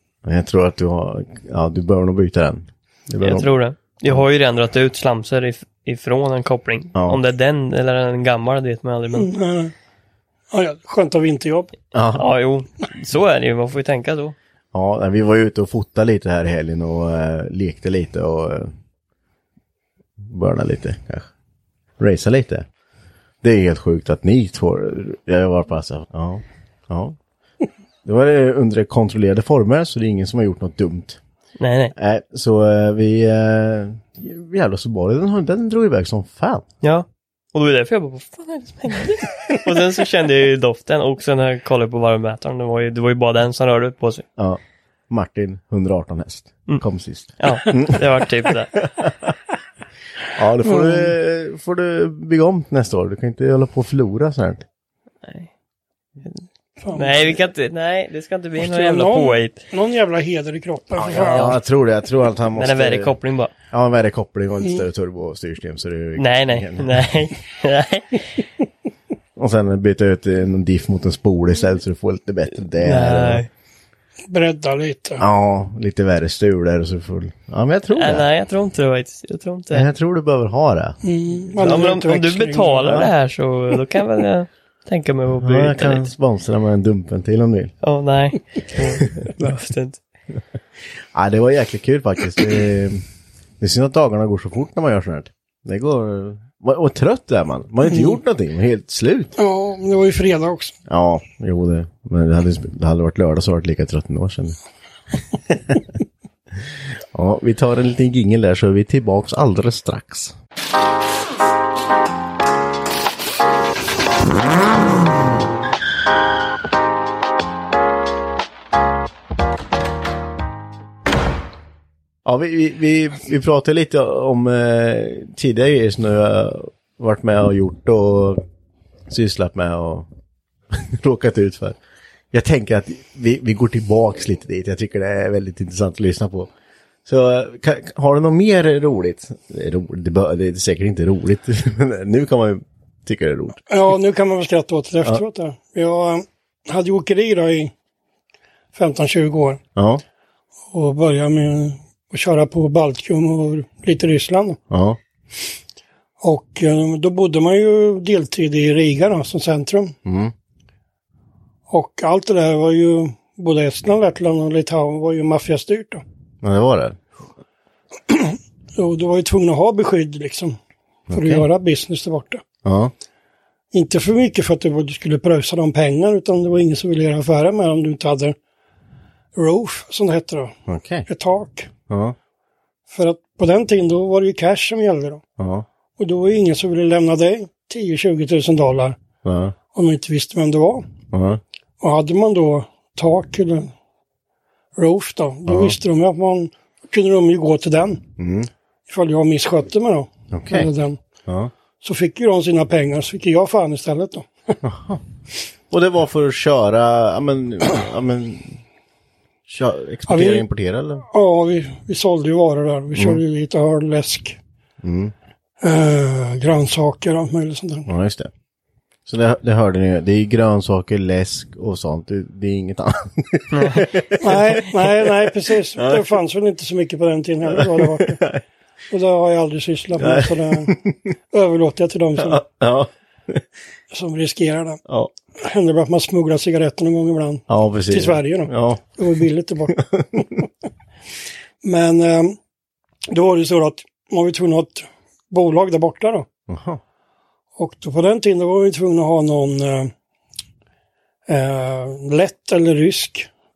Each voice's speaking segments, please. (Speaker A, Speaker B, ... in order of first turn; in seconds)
Speaker A: 0.2-3.5, 7.0-7.2, 11.9-12.3, 14.7-18.8, 20.2-21.3, 22.0-22.7, 23.4-27.2, 28.0-31.2, 32.0-36.6, 44.4-48.1, 48.8-49.3, 50.4-54.7, 61.0-63.1, 63.7-67.1, 69.4-73.5, 75.2-78.3, 79.7-81.0, 82.9-83.1, 85.4-87.7, 91.1-93.0, 93.6-99.3, 100.9-104.6, 105.3-105.9, 106.5-110.3, 122.2-128.4, 129.1-130.1, 130.7-131.8, 132.3-136.5, 137.1-143.6, 149.8-150.0, 154.7-155.0, 160.1-160.3, 166.4-167.0, 171.1-171.5, 172.6-172.9, 180.7-181.1, 181.9-182.2, 185.4-185.7, 189.2-189.6, 191.1-191.4, 195.5-195.8, 198.2-198.5, 200.3-200.7, 201.3-201.5, 204.6-205.0, 205.7-208.6, 209.5-211.1, 212.9-213.2, 214.8-215.1, 217.9-218.3, 219.1-226.1, 227.5-228.4, 230.0-231.0, 232.2-233.5, 237.5-239.1, 239.7-240.4, 246.5-246.8
Speaker B: 3.2-9.3, 12.2-14.3, 31.6-31.9, 36.8-44.2, 47.4-48.8, 57.0-59.6, 61.1-61.6, 62.5-63.5, 66.2-68.4, 72.8-73.5, 78.0-79.9, 81.6-86.1, 87.8-90.0, 223.5-223.9
Speaker C: 9.1-9.7, 10.5-11.7, 50.6-51.1, 56.8-57.4, 58.6-61.5, 74.3-75.2, 81.0-83.0, 97.9-98.2, 99.4-100.8, 143.7-147.7, 148.7-149.6, 150.7-154.6, 156.2-159.9, 161.7-166.0, 168.1-170.6, 171.1-172.4, 173.7-178.4, 179.4-180.5, 181.1-181.7, 182.9-185.2, 186.0-189.0, 189.7-190.8, 191.8-193.7, 194.8-198.0, 198.9-201.0, 201.8-204.6, 210.1-210.5, 211.1-214.4, 215.6-217.9, 224.2-228.2, 228.9-230.8, 231.3-232.4, 233.9-234.8, 235.4-240.3, 241.6-242.4, 243.1-246.3, 247.6-249.9, 251.3-253.3